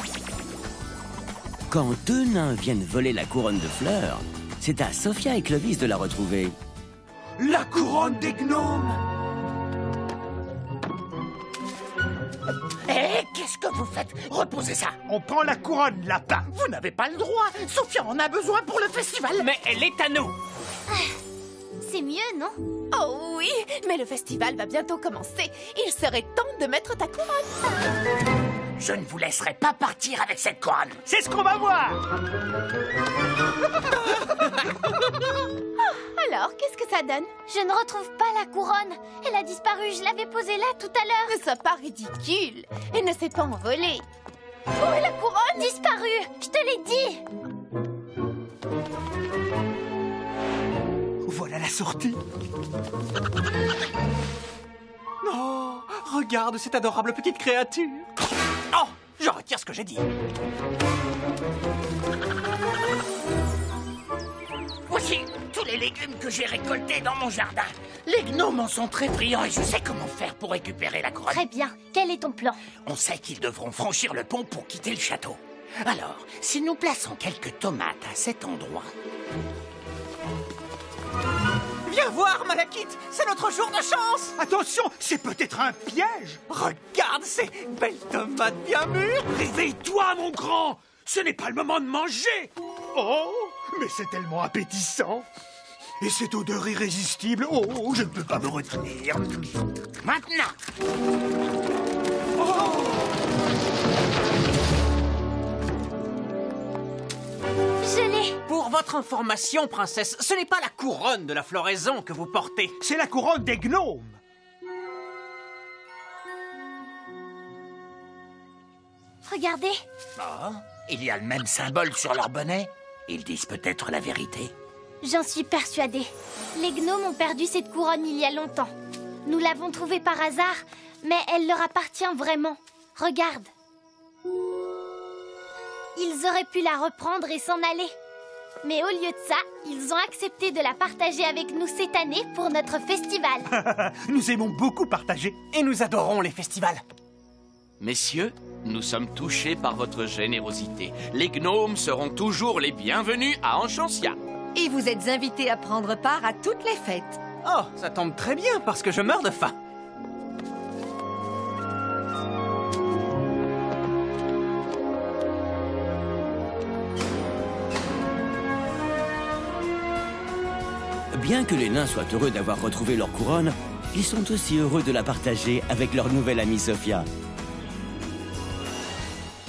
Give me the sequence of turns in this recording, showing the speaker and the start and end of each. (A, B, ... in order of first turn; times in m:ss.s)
0:01.7-0:06.6 A
0:07.4-0:09.0 B
0:12.9-0:15.0 C
0:15.1-0:16.5 B
0:16.5-0:19.5 C
0:19.4-0:20.4 D
0:21.8-0:22.6 E
0:22.9-0:27.8 F
0:28.8-0:31.0 C
0:31.1-0:32.0 B
0:35.8-0:37.3 F
0:37.5-0:41.4 E
0:41.3-0:44.0 F
0:44.8-0:47.2 E
0:51.3-0:52.2 D
0:55.2-0:58.1 D
0:58.7-1:00.0 D
1:04.9-1:11.4 C
1:11.3-1:12.6 E
1:12.8-1:18.9 C
1:21.8-1:24.3 D
1:24.4-1:26.4 B
1:26.5-1:29.4 D
1:29.3-1:35.3 B
1:36.0-1:39.5 B
1:40.0-1:40.5 C
1:47.8-1:48.4 E
1:48.5-1:52.8 D
1:52.8-1:54.2 B
1:59.3-1:59.8 E
2:00.2-2:04.5 C
2:05.0-2:08.7 E
2:09.3-2:13.5 E
2:16.0-2:17.9 E
2:18.6-2:23.5 E
2:23.5-2:25.5 B
2:25.4-2:26.8 D
2:27.8-2:34.2 G
2:34.6-2:37.2 H
2:37.4-2:39.6 D
2:51.1-2:57.1 A